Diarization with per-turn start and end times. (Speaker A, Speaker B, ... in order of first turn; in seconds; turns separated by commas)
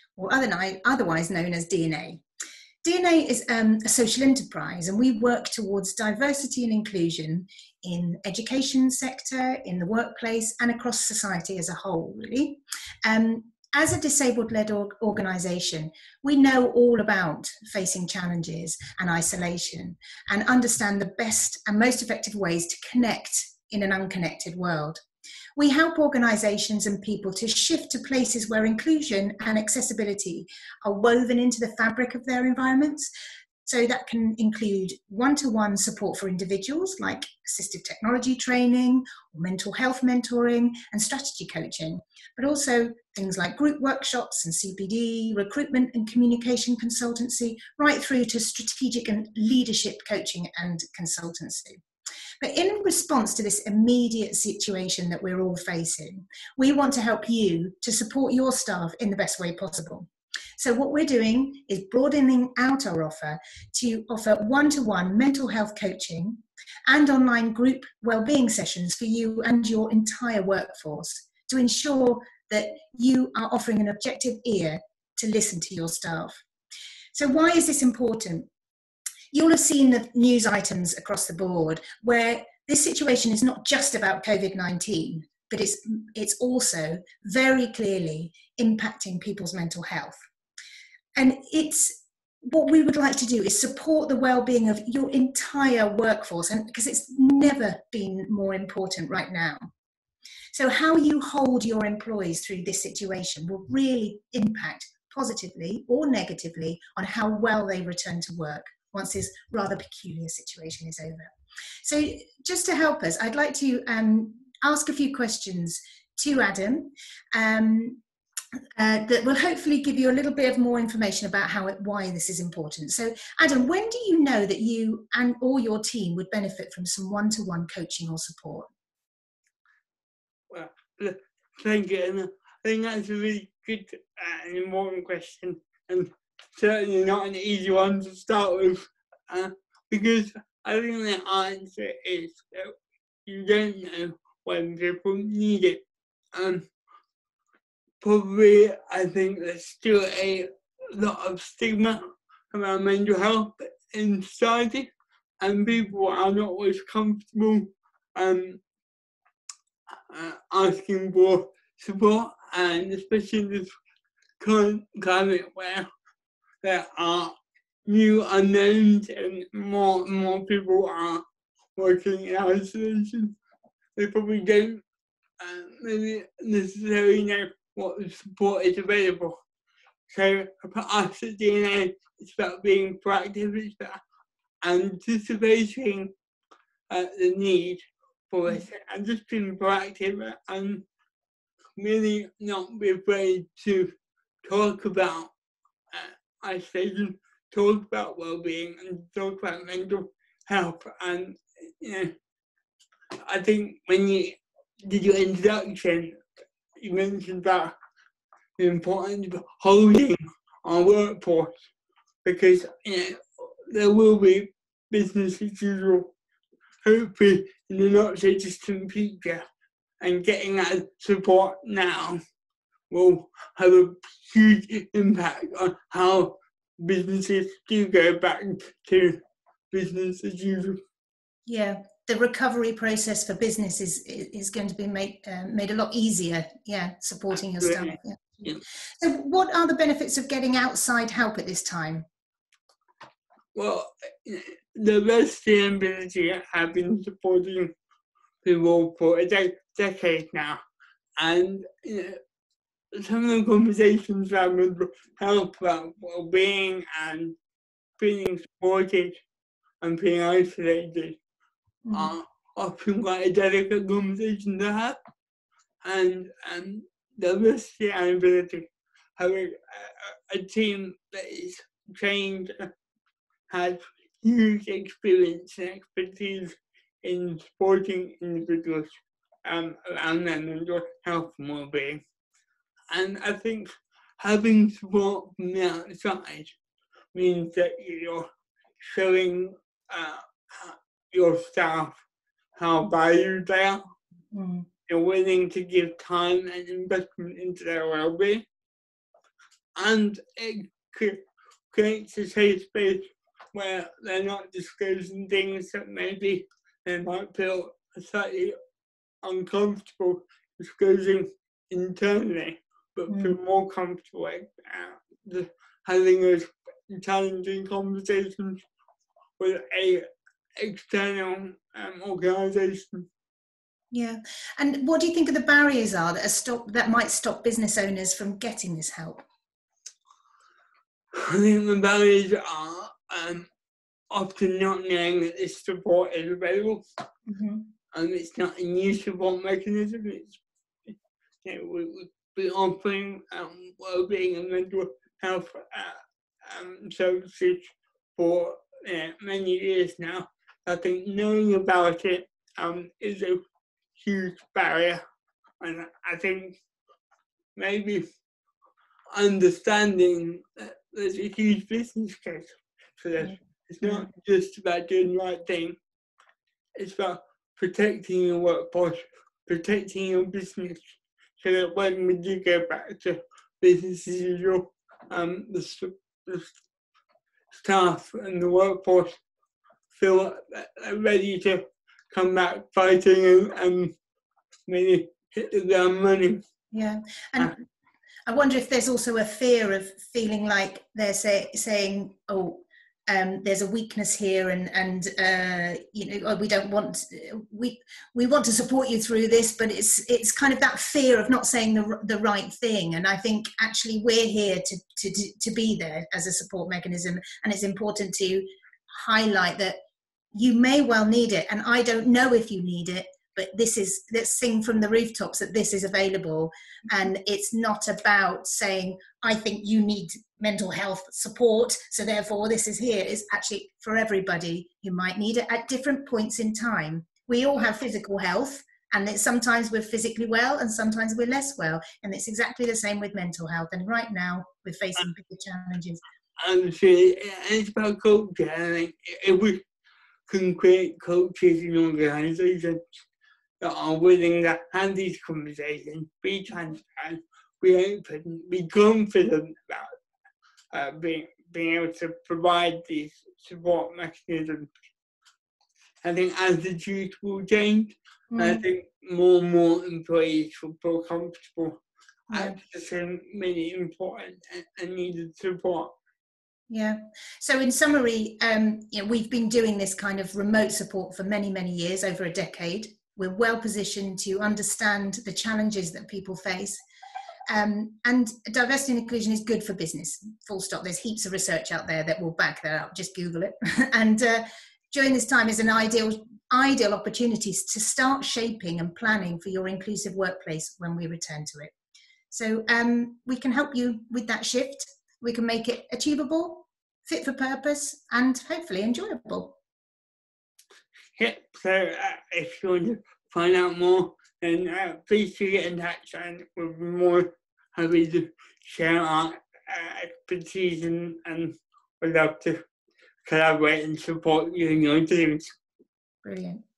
Speaker A: 0.1-2.2, Speaker A: 2.8-25.0, Speaker A: 25.6-33.1, Speaker A: 33.6-51.8, Speaker A: 52.4-76.4, Speaker A: 77.1-78.5, Speaker A: 79.3-90.2, Speaker A: 91.2-91.9, Speaker A: 92.4-99.7, Speaker A: 100.5-111.3, Speaker A: 111.8-118.0, Speaker A: 118.8-128.7, Speaker B: 130.5-142.7, Speaker B: 143.2-145.8, Speaker B: 146.3-146.7, Speaker B: 148.0-152.0, Speaker B: 152.5-154.9, Speaker B: 155.4-158.6, Speaker B: 160.1-163.7, Speaker B: 164.4-165.9, Speaker B: 166.6-167.3, Speaker B: 167.9-171.2, Speaker B: 171.8-173.3, Speaker B: 174.0-174.8, Speaker B: 175.4-179.4, Speaker B: 180.1-184.0, Speaker B: 184.6-186.1, Speaker B: 186.9-190.8, Speaker B: 191.8-193.9, Speaker B: 194.4-195.3, Speaker B: 195.9-202.1, Speaker B: 203.2-206.2, Speaker B: 206.8-207.7, Speaker B: 208.6-211.5, Speaker B: 212.2-216.1, Speaker B: 216.8-219.4, Speaker B: 220.0-222.2, Speaker B: 222.9-229.2, Speaker B: 229.7-230.8, Speaker A: 231.5-242.1, Speaker B: 237.6-237.9, Speaker B: 243.5-247.7, Speaker B: 248.4-250.6, Speaker B: 251.2-252.2, Speaker B: 252.9-257.4, Speaker B: 258.0-259.2, Speaker B: 259.8-261.2, Speaker A: 261.8-262.1, Speaker B: 261.9-265.0, Speaker B: 265.8-268.6, Speaker B: 269.2-272.7, Speaker B: 273.5-278.9, Speaker B: 279.4-282.0, Speaker B: 282.9-286.5, Speaker B: 287.1-288.3, Speaker B: 288.8-292.0, Speaker B: 292.6-293.8, Speaker A: 294.3-294.7, Speaker B: 294.9-298.4, Speaker B: 299.8-301.2, Speaker B: 301.7-308.6, Speaker B: 309.2-318.6, Speaker A: 313.1-313.4, Speaker B: 319.4-320.0, Speaker B: 320.6-323.1, Speaker A: 323.9-329.2, Speaker B: 331.1-333.5, Speaker B: 334.1-336.8, Speaker A: 337.3-337.7, Speaker B: 337.9-340.4, Speaker B: 341.4-353.4, Speaker B: 353.9-355.0, Speaker B: 355.6-356.6, Speaker B: 357.6-358.0, Speaker B: 359.1-365.8, Speaker A: 363.2-364.1, Speaker B: 366.8-370.9, Speaker B: 371.4-376.5, Speaker B: 377.5-379.1, Speaker B: 379.9-383.9, Speaker B: 384.7-386.4, Speaker A: 386.7-387.6, Speaker A: 388.3-409.8, Speaker A: 410.3-436.0, Speaker B: 436.4-439.6, Speaker B: 440.3-442.8, Speaker B: 443.6-449.9, Speaker B: 450.7-454.7, Speaker B: 456.0-461.8, Speaker A: 458.3-458.6, Speaker A: 462.3-462.6, Speaker B: 462.3-465.9, Speaker A: 466.7-476.8, Speaker A: 477.5-491.7, Speaker A: 492.3-499.6, Speaker B: 501.1-512.6, Speaker B: 513.2-515.5, Speaker A: 516.2-516.6